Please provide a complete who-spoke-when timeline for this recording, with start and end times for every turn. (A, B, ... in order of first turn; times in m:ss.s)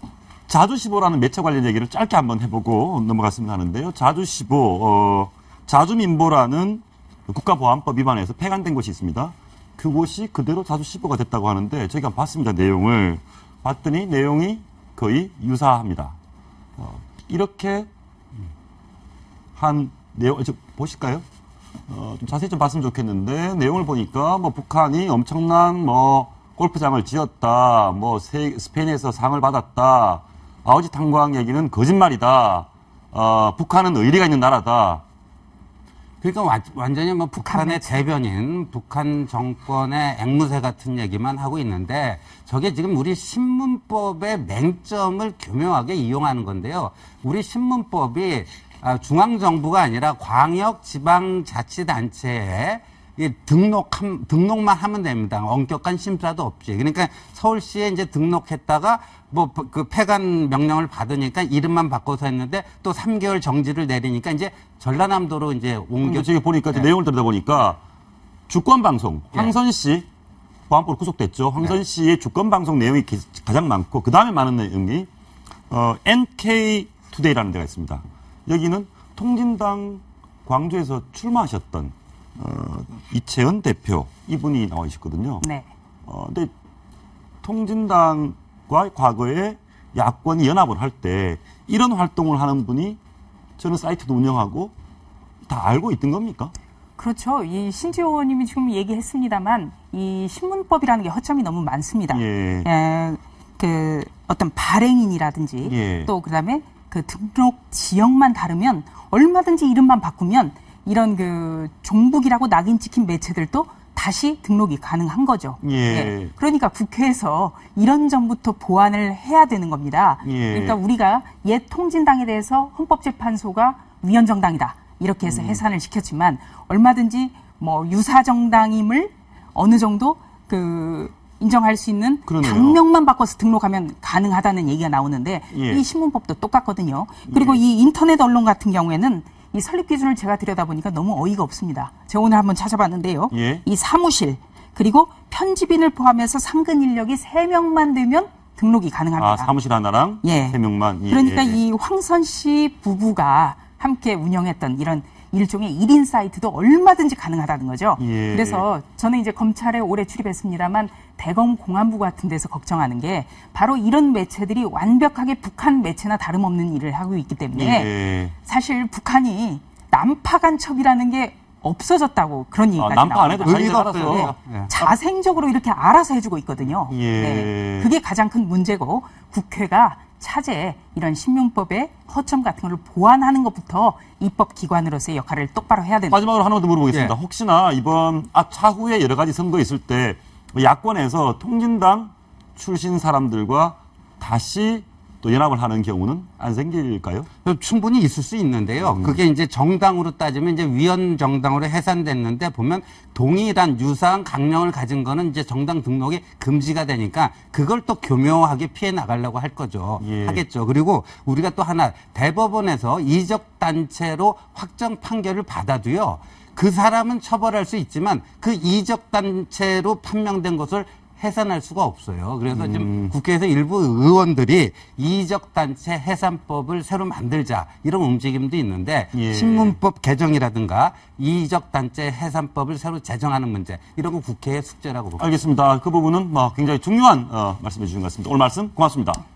0:00.5-0:16.1 A
0:16.8-0:17.9 A
0:19.5-0:21.2 A
0:21.9-0:35.0 A
0:36.2-1:06.9 B
0:37.4-0:38.0 C
1:06.0-1:07.8 A
1:08.5-1:10.0 A
1:10.7-1:15.1 A
1:15.7-1:25.4 A
1:26.0-1:26.5 A
1:27.4-1:33.0 A
1:33.6-1:34.7 A
1:35.5-1:36.5 A
1:37.0-2:29.5 C
1:42.1-1:42.7 A
1:45.6-1:46.1 A
1:55.6-1:56.3 A
2:00.2-2:00.8 A
2:05.3-2:05.6 A
2:12.2-2:12.8 A
2:15.5-2:15.8 A
2:17.3-2:17.6 A
2:23.3-2:23.6 A
2:29.2-2:31.6 A
2:30.2-3:06.2 C
2:38.0-2:38.6 A
2:47.5-2:48.3 A
2:52.8-2:54.3 A
2:53.4-2:54.9 B
2:56.9-2:57.9 A
3:06.1-3:17.3 A
3:06.9-3:07.2 B
3:17.4-3:55.3 B
3:18.8-3:19.2 A
3:30.0-3:30.4 A
3:42.5-3:43.1 A
3:49.1-3:49.8 A
3:55.2-3:59.2 A